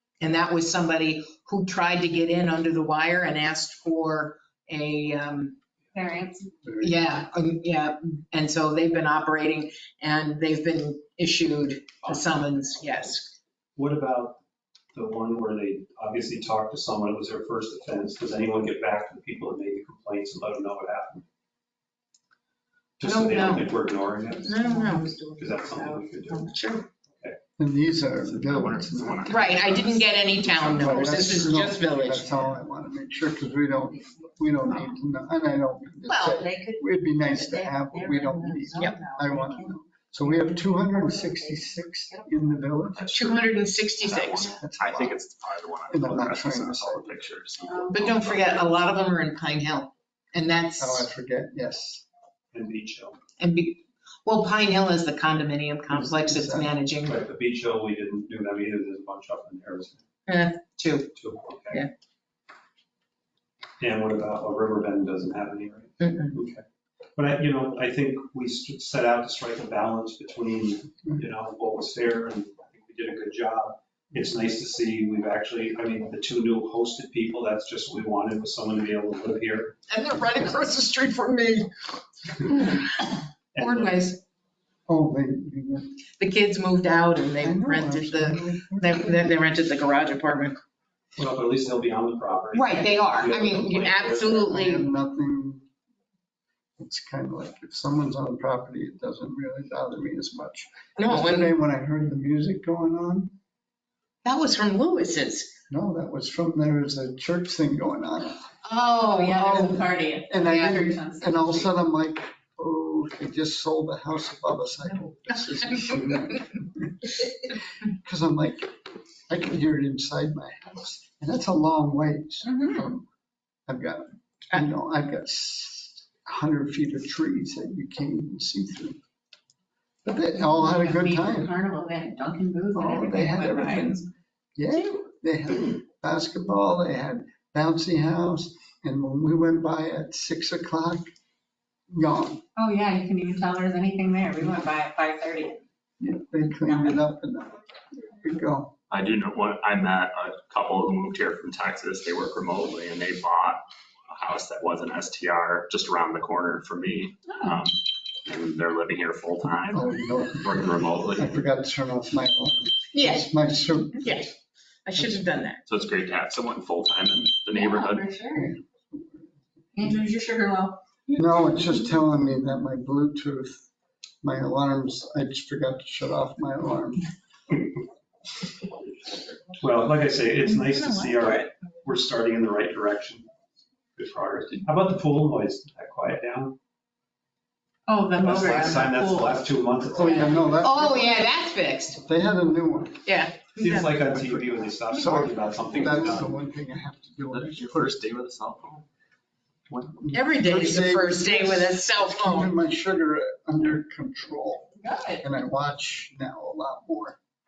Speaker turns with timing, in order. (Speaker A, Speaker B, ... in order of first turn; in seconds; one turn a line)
Speaker A: 0.2-5.6
Speaker B: 5.9-6.5
Speaker A: 6.8-13.4
Speaker C: 13.8-14.4
Speaker C: 14.9-21.2
Speaker C: 23.0-24.6
Speaker A: 23.0-23.7
Speaker A: 24.4-25.2
Speaker B: 24.6-26.0
Speaker C: 25.4-26.5
Speaker A: 26.5-26.9
Speaker D: 27.6-29.7
Speaker E: 28.2-31.7
Speaker A: 29.3-32.4
Speaker D: 30.7-43.1
Speaker B: 36.1-39.7
Speaker B: 40.2-42.3
Speaker E: 42.9-48.8
Speaker A: 43.1-44.6
Speaker D: 44.6-45.2
Speaker D: 45.9-47.1
Speaker B: 47.7-48.0
Speaker A: 47.9-51.1
Speaker D: 50.8-52.0
Speaker C: 52.5-53.2
Speaker A: 53.4-57.2
Speaker D: 55.9-56.7
Speaker C: 57.0-60.0
Speaker A: 60.3-61.1
Speaker C: 61.1-61.9
Speaker C: 63.8-66.6
Speaker D: 66.0-66.3
Speaker C: 67.2-79.8
Speaker A: 80.0-81.6
Speaker C: 83.5-84.1
Speaker A: 83.6-84.2
Speaker D: 84.9-86.0
Speaker A: 86.2-90.6
Speaker D: 87.4-89.2
Speaker C: 91.2-94.5
Speaker A: 92.5-94.9
Speaker D: 94.5-95.7
Speaker D: 96.8-103.3
Speaker A: 101.0-101.5
Speaker A: 104.2-105.5
Speaker D: 105.7-108.4
Speaker A: 108.6-109.8
Speaker B: 109.0-111.6
Speaker D: 110.3-117.2
Speaker D: 117.9-118.8
Speaker D: 119.3-123.1
Speaker D: 123.7-129.0
Speaker D: 130.0-131.5
Speaker B: 130.4-134.1
Speaker D: 132.8-134.1
Speaker D: 134.6-141.1
Speaker D: 141.9-142.4
Speaker B: 142.6-145.6
Speaker D: 146.0-147.6
Speaker B: 146.6-147.0
Speaker D: 148.1-148.8
Speaker E: 148.9-161.4
Speaker D: 159.7-164.3
Speaker A: 162.9-163.3
Speaker A: 164.0-164.3
Speaker A: 164.8-165.7
Speaker E: 165.7-168.1
Speaker B: 167.5-168.5
Speaker D: 168.3-169.2
Speaker B: 169.8-170.8
Speaker D: 171.2-173.6
Speaker D: 174.2-177.1
Speaker C: 179.6-183.3
Speaker A: 180.5-181.5
Speaker C: 184.0-186.6
Speaker B: 187.9-189.4
Speaker C: 188.2-190.3
Speaker D: 189.9-191.2
Speaker B: 190.0-190.4
Speaker A: 190.6-192.0
Speaker D: 192.0-193.1
Speaker A: 193.1-194.0
Speaker C: 193.6-196.4
Speaker D: 194.2-198.0
Speaker E: 197.3-198.9
Speaker D: 199.9-207.2
Speaker A: 200.1-202.5
Speaker B: 204.8-205.2